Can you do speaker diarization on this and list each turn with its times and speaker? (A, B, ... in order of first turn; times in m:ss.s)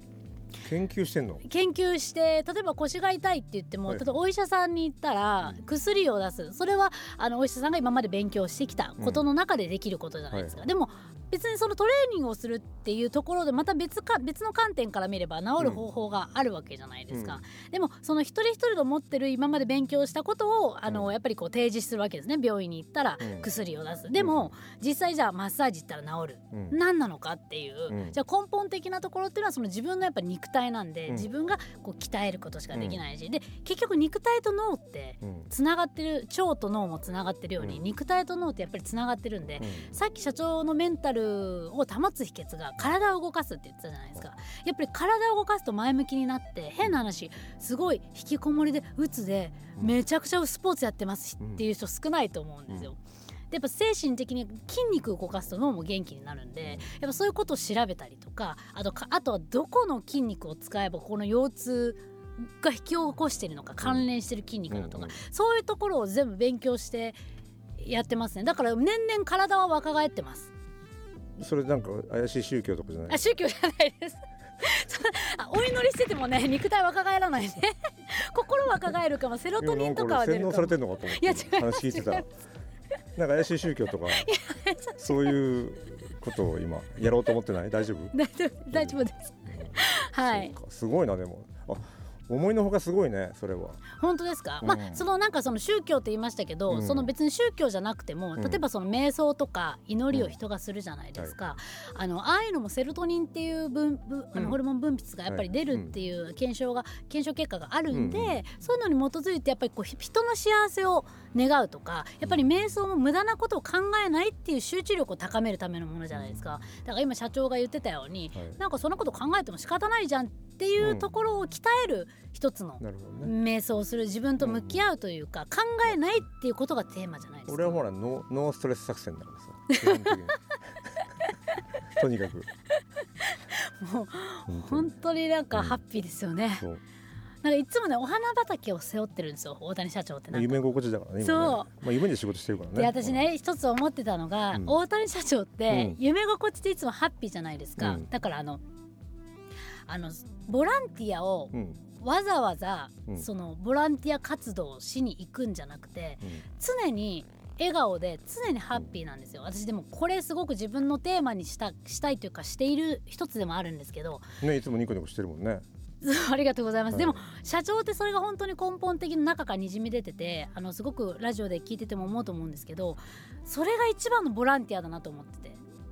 0:00.6-0:01.4 A
0:01.4-0:53.0 B
0:09.0-0:09.2 A
0:10.3-0:10.6 A
0:15.6-0:15.8 A
0:17.1-0:17.4 A
0:23.2-0:23.5 A
0:24.2-0:24.5 A
0:26.5-0:26.8 A
0:27.9-0:28.2 A
0:32.7-0:33.0 A
0:35.2-0:35.5 A
0:39.6-0:39.9 A
0:53.5-1:07.2 B
0:56.6-0:56.9 A
1:04.7-1:05.2 A
1:07.8-1:10.5 B
1:11.4-1:13.2 A
1:13.1-1:22.2 B
1:19.6-1:22.3 A
1:23.1-1:24.3 A
1:24.1-1:25.4 B
1:25.0-1:28.1 A
1:28.1-1:30.5 B
1:28.7-1:33.8 A
1:33.9-2:07.8 B
1:34.6-1:35.0 A
1:36.7-1:37.1 A
1:38.4-1:38.6 A
1:45.3-1:45.9 A
1:47.9-1:48.4 A
1:56.1-1:56.4 A
2:00.8-2:01.1 A
2:02.8-2:03.3 A
2:04.4-2:04.8 A
2:07.5-2:10.4 A
2:09.7-2:10.2 B
2:11.8-2:12.5 A
2:13.2-2:16.6 B
2:14.5-2:14.9 A
2:15.5-2:15.8 A
2:17.4-2:20.6 B
2:20.3-2:23.2 A
2:21.2-2:21.7 B
2:22.7-2:28.6 B
2:25.7-2:26.0 A
2:27.8-2:28.1 A
2:29.9-2:44.3 B
2:31.5-2:31.8 A
2:44.4-2:45.6 A
2:46.0-2:55.6 B
2:46.9-2:47.2 A